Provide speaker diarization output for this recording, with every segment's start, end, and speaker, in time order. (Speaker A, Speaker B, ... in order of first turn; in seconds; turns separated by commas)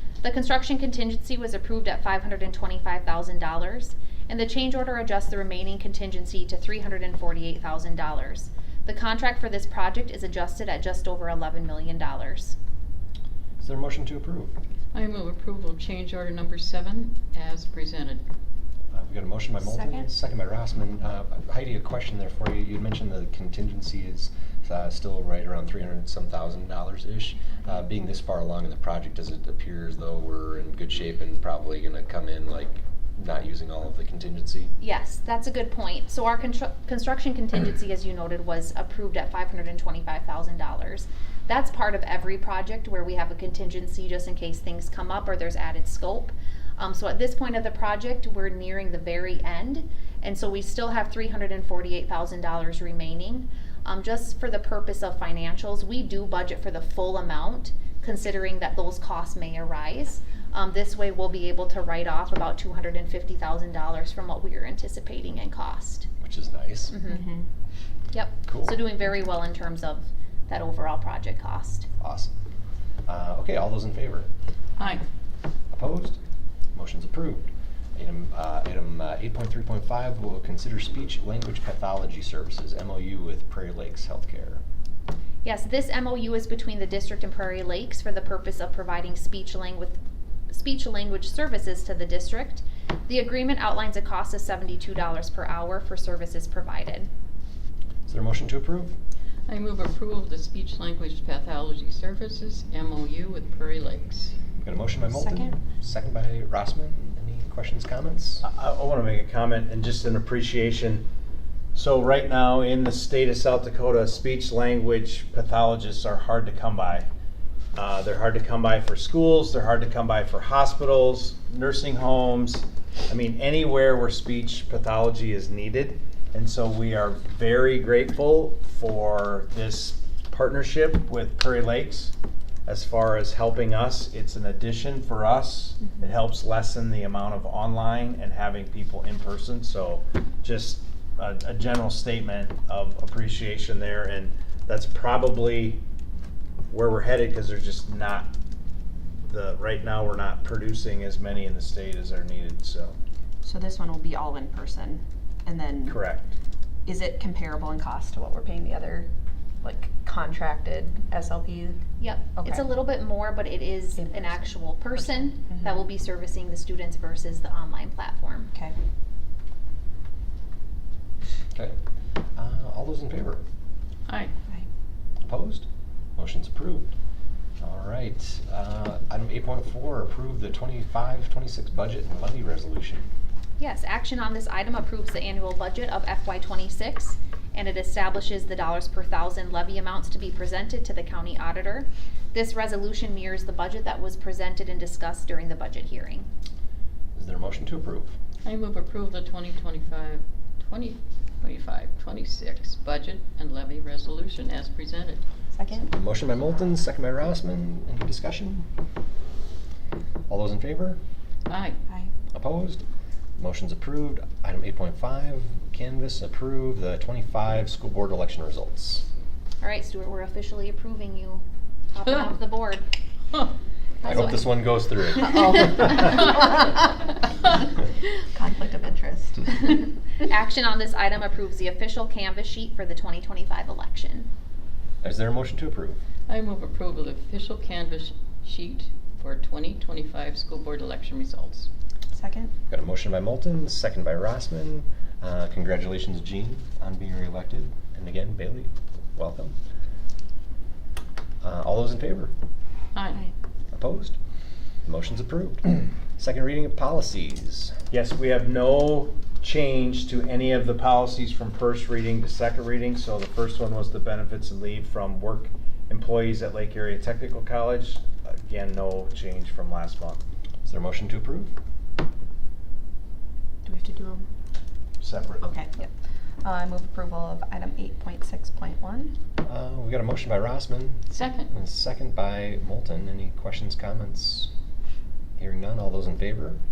Speaker A: 0.2-12.6, Speaker B: 13.6-14.5, Speaker C: 14.9-18.2, Speaker B: 18.9-34.7, Speaker D: 19.6-20.1, Speaker A: 34.8-66.1, Speaker B: 66.2-67.0, Speaker A: 66.9-67.2, Speaker D: 67.1-67.5, Speaker A: 68.1-71.8, Speaker B: 68.5-68.8, Speaker B: 72.0-72.3, Speaker B: 73.0-74.3, Speaker C: 74.8-75.0, Speaker B: 75.7-76.2, Speaker B: 76.7-84.6, Speaker A: 85.4-90.0, Speaker A: 90.5-97.1, Speaker B: 98.1-98.9, Speaker C: 99.5-104.3, Speaker B: 104.6-108.4, Speaker D: 105.1-105.6, Speaker E: 108.4-111.0, Speaker E: 111.7-117.1, Speaker E: 117.7-132.1, Speaker E: 132.7-145.8, Speaker E: 146.7-148.3, Speaker E: 149.2-152.9, Speaker D: 153.4-156.0, Speaker E: 155.9-156.3, Speaker D: 156.8-159.1, Speaker D: 159.6-161.8, Speaker A: 162.0-168.5, Speaker D: 162.3-162.8, Speaker D: 163.9-165.8, Speaker B: 172.3-173.4, Speaker C: 174.1-174.3, Speaker B: 175.2-175.6, Speaker B: 176.2-176.9, Speaker B: 177.6-183.1, Speaker A: 183.6-196.3, Speaker B: 197.1-198.1, Speaker C: 198.4-205.2, Speaker D: 205.5-205.9, Speaker B: 205.9-208.7, Speaker B: 210.3-211.0, Speaker C: 211.5-211.8, Speaker B: 212.3-212.8, Speaker B: 213.4-219.0, Speaker A: 219.6-222.8, Speaker A: 224.0-224.4, Speaker B: 224.0-225.9, Speaker D: 228.3-229.8, Speaker A: 229.8-234.3, Speaker B: 235.0-236.0, Speaker C: 236.3-241.7, Speaker D: 242.1-242.5, Speaker B: 242.7-249.5, Speaker B: 251.4-252.3, Speaker C: 252.9-253.2, Speaker B: 253.7-254.2, Speaker B: 254.8-257.7, Speaker E: 257.9-270.2, Speaker B: 270.6-271.5, Speaker D: 273.6-274.2, Speaker E: 275.0-275.5, Speaker D: 275.4-275.9, Speaker D: 276.4-279.1, Speaker B: 279.4-284.5, Speaker C: 281.1-281.5, Speaker B: 285.4-286.6